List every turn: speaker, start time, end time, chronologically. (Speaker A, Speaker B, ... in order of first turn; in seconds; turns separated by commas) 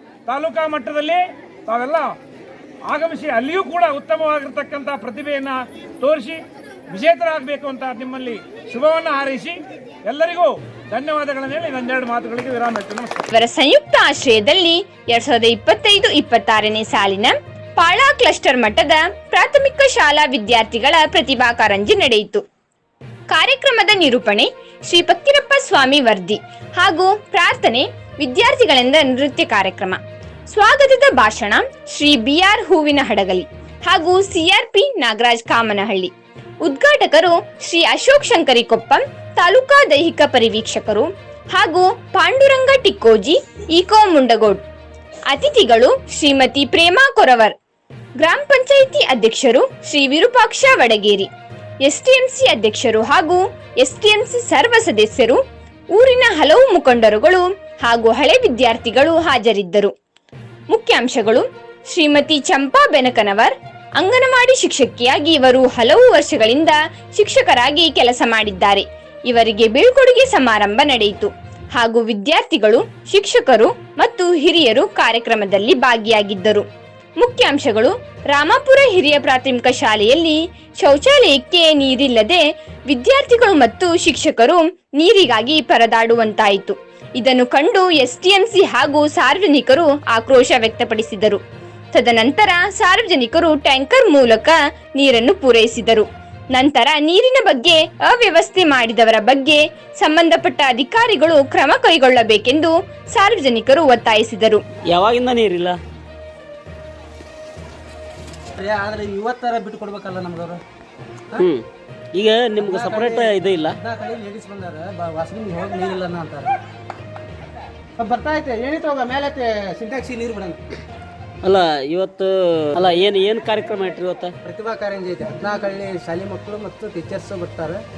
Speaker A: 0.3-2.1, Speaker A: 2.9-13.3, Speaker B: 13.3-22.4, Speaker B: 23.3-30.0, Speaker B: 30.5-36.1, Speaker B: 36.6-44.6, Speaker B: 45.3-47.5, Speaker B: 48.2-51.3, Speaker B: 51.9-55.4, Speaker B: 56.0-59.9, Speaker B: 60.7-76.6, Speaker B: 77.2-91.4, Speaker B: 92.0-104.6, Speaker C: 104.9-105.8, Speaker D: 108.6-110.6, Speaker C: 111.4-113.8, Speaker D: 112.6-116.5, Speaker D: 118.0-120.6, Speaker C: 121.4-124.3, Speaker D: 124.4-127.8